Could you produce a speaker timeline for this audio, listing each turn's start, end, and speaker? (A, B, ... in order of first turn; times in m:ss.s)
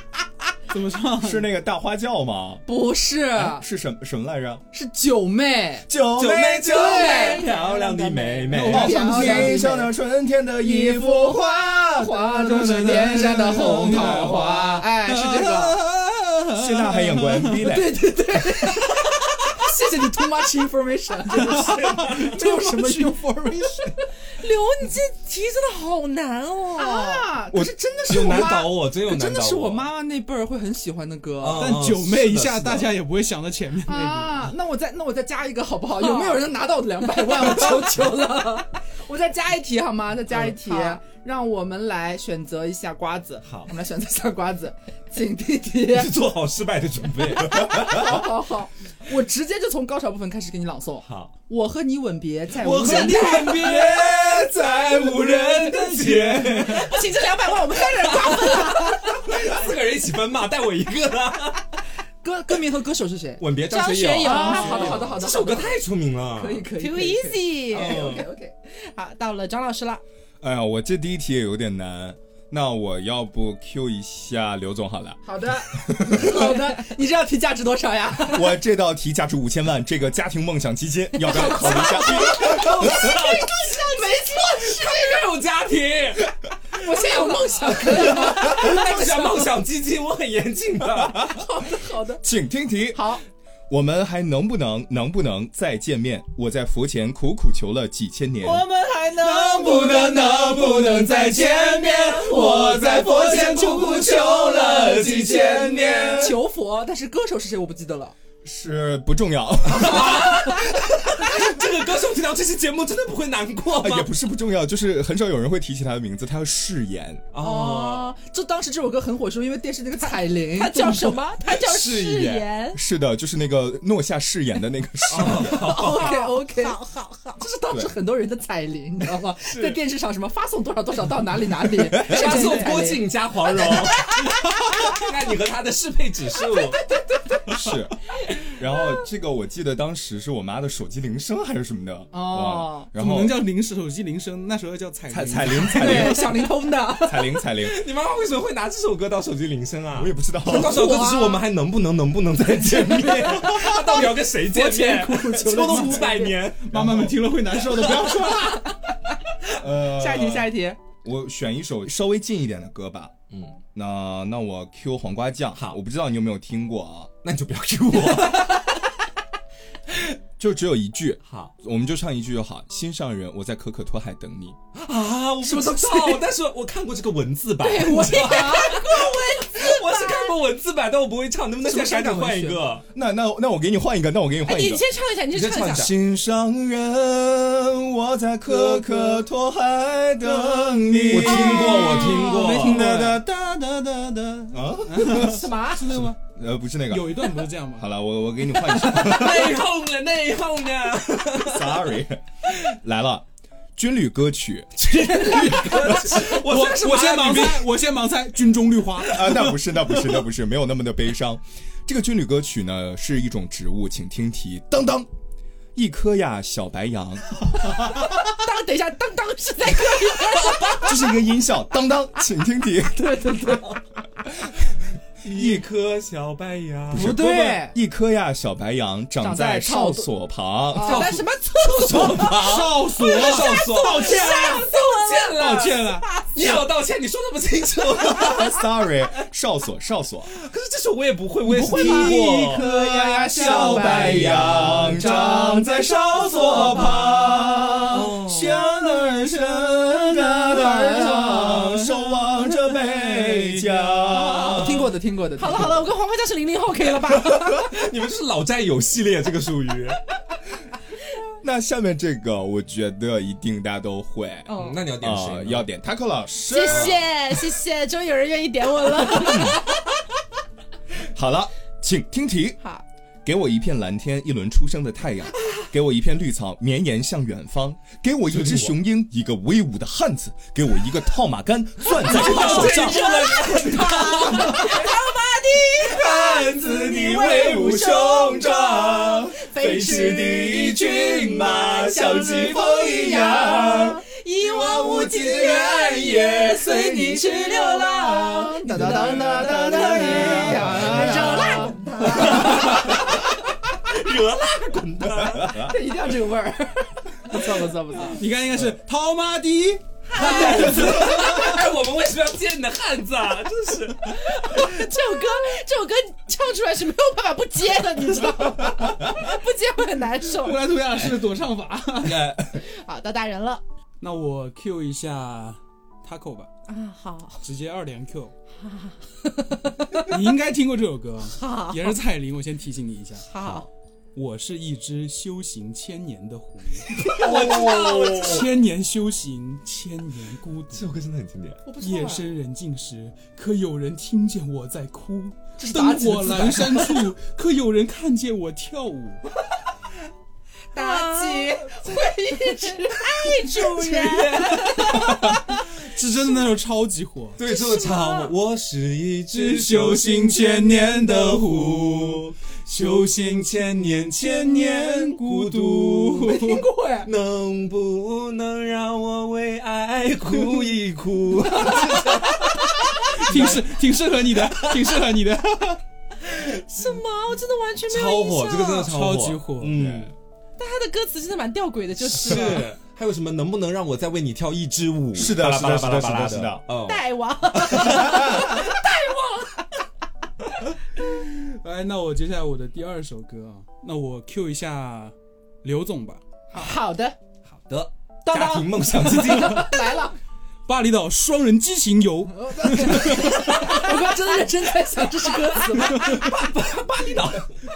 0:00.7-0:01.5 A
0:01.2-0:02.6 B
0:02.7-0:03.6 C
0:03.3-0:04.6 B
0:04.7-0:05.9 C
0:05.9-0:07.0 B
0:06.2-0:09.2 D
0:06.7-0:07.5 C
0:06.7-0:08.7 E
0:08.5-0:09.7 A
0:08.6-0:09.9 C
0:08.7-0:14.5 B
0:10.6-0:15.8 C
0:12.5-0:17.6 A
0:16.6-0:18.0 B
0:17.6-0:24.1 C
0:21.5-0:23.2 A
0:21.6-0:22.2 D
0:24.3-0:27.3 E
0:26.8-0:31.8 C
0:28.0-0:29.9 D
0:31.4-0:32.9 D
0:31.6-0:34.4 A
0:33.8-0:46.1 C
0:36.0-0:36.5 E
0:40.4-0:41.0 E
0:43.4-0:43.7 D
0:45.9-0:48.2 D
0:47.4-0:53.7 C
0:51.0-0:51.3 D
0:52.6-0:56.9 D
0:55.7-0:56.9 A
0:56.6-0:59.2 E
0:57.8-1:01.6 D
1:02.2-1:03.4 C
1:03.4-1:06.7 D
1:03.7-1:05.1 E
1:04.2-1:08.5 C
1:06.8-1:08.3 E
1:07.7-1:08.2 D
1:08.9-1:10.0 E
1:10.4-1:16.6 B
1:15.2-1:18.6 C
1:18.3-1:23.1 B
1:21.2-1:25.2 C
1:21.8-1:23.8 D
1:24.4-1:26.3 D
1:26.7-1:29.6 C
1:27.7-1:31.3 D
1:31.3-1:32.2 C
1:32.2-1:33.1 B
1:32.9-1:33.2 C
1:33.7-1:38.6 B
1:38.4-1:48.2 C
1:39.3-1:46.4 B
1:44.7-1:46.3 D
1:48.4-1:51.2 B
1:49.6-1:54.1 D
1:53.8-1:57.2 B
1:57.3-1:58.1 D
1:57.4-2:01.2 C
2:00.1-2:02.8 E
2:01.4-2:02.5 D
2:02.7-2:05.7 B
2:05.1-2:06.2 D
2:05.4-2:06.8 C
2:05.6-2:07.4 E
2:07.4-2:14.2 C
2:07.7-2:08.0 B
2:09.5-2:09.8 D
2:11.9-2:12.4 B
2:12.0-2:16.8 D
2:16.5-2:17.7 C
2:17.5-2:23.4 B
2:22.1-2:23.0 C
2:23.0-2:26.4 A
2:25.1-2:27.8 B
2:25.7-2:27.4 C
2:27.6-2:36.7 D
2:29.9-2:31.0 B
2:30.8-2:31.2 C
2:32.8-2:36.4 C
2:35.6-2:36.0 A
2:36.6-2:38.6 A
2:36.7-2:38.5 B
2:39.6-2:43.1 B
2:39.8-2:40.8 C
2:43.3-2:43.6 D
2:43.8-2:47.1 B
2:47.2-2:48.6 D
2:50.4-2:54.6 B
2:51.2-2:51.5 D
2:54.8-3:02.8 D
2:55.4-2:56.3 C
2:57.6-3:00.4 E
2:58.0-2:58.7 C
3:01.6-3:02.6 C
3:02.9-3:04.8 B
3:04.4-3:05.9 E
3:05.3-3:05.9 D
3:05.7-3:19.6 B
3:11.1-3:12.9 D
3:11.3-3:12.5 C
3:12.2-3:16.2 A
3:15.2-3:15.9 E
3:16.9-3:17.9 A
3:18.7-3:21.9 D
3:21.4-3:25.8 B
3:24.8-3:27.7 D
3:25.0-3:26.1 C
3:25.6-3:29.4 A
3:29.1-3:35.1 B
3:35.8-3:37.2 B
3:38.2-3:41.0 E
3:40.8-3:43.4 B
3:42.9-3:43.8 C
3:45.2-3:47.2 D
3:45.2-3:45.6 B
3:46.9-3:51.2 B
3:46.9-3:47.8 C
3:49.2-3:50.1 C
3:50.7-3:51.2 C
3:50.8-3:58.6 D
3:50.9-3:52.4 E
3:52.2-3:54.7 A
3:53.0-3:56.6 E
3:55.4-3:56.1 A
3:58.2-4:00.3 B
4:00.3-4:02.6 D
4:01.6-4:05.0 C
4:01.7-4:01.9 A
4:01.7-4:14.9 B
4:03.4-4:04.3 A
4:07.9-4:08.5 D
4:10.4-4:11.8 C
4:12.7-4:13.6 A
4:14.1-4:15.9 C
4:15.4-4:17.7 E
4:17.2-4:20.0 D
4:21.4-4:27.1 B
4:24.5-4:24.8 E
4:24.5-4:25.7 D
4:26.5-4:29.8 E
4:26.7-4:27.0 D
4:31.1-4:32.6 B
4:33.2-4:43.3 B
4:38.3-4:38.7 D
4:41.9-4:44.8 D
4:42.0-4:51.0 E
4:45.9-4:54.0 B
4:46.2-4:48.0 D
4:51.9-5:03.0 E
4:53.4-4:53.8 C
4:54.8-4:56.1 D
4:54.8-4:55.4 B
4:56.4-5:02.9 C
4:58.7-5:01.8 B
5:02.1-5:05.7 D
5:05.2-5:05.7 B
5:05.5-5:08.2 C
5:08.2-5:11.6 A
5:10.1-5:11.2 E
5:10.2-5:11.1 C
5:10.2-5:14.4 D
5:14.0-5:20.6 E
5:20.4-5:22.3 A
5:22.0-5:22.6 B
5:22.6-5:23.6 E
5:24.0-5:26.5 A
5:26.7-5:27.5 E
5:27.4-5:28.3 A
5:28.6-5:30.1 E
5:30.1-5:33.3 A
5:31.3-5:32.0 E
5:33.2-5:33.7 E
5:34.2-5:40.9 A
5:37.0-5:38.5 D
5:37.2-5:38.1 C
5:40.7-5:41.6 D
5:41.7-5:42.3 C
5:41.8-5:49.2 A
5:45.6-5:47.1 C
5:50.7-5:53.5 C
5:50.7-5:55.4 E
5:53.5-5:55.0 D
5:54.7-5:57.4 A
5:57.4-6:06.4 D
5:57.4-5:58.3 E
5:59.3-6:06.7 A
6:06.2-6:07.1 C
6:07.0-6:13.7 D
6:10.4-6:10.8 A
6:11.5-6:12.3 C
6:13.0-6:15.8 A
6:14.3-6:14.9 D
6:16.3-6:18.9 E
6:17.9-6:20.1 D
6:18.8-6:20.1 A
6:20.6-6:22.7 E
6:22.1-6:28.5 D
6:25.1-6:26.6 B
6:26.9-6:29.7 E
6:31.0-6:36.2 A
6:36.5-6:37.2 C
6:37.5-6:39.7 D
6:38.3-6:40.2 C
6:39.3-6:39.7 A
6:40.7-6:43.4 A
6:42.3-6:46.4 C
6:45.7-6:47.6 D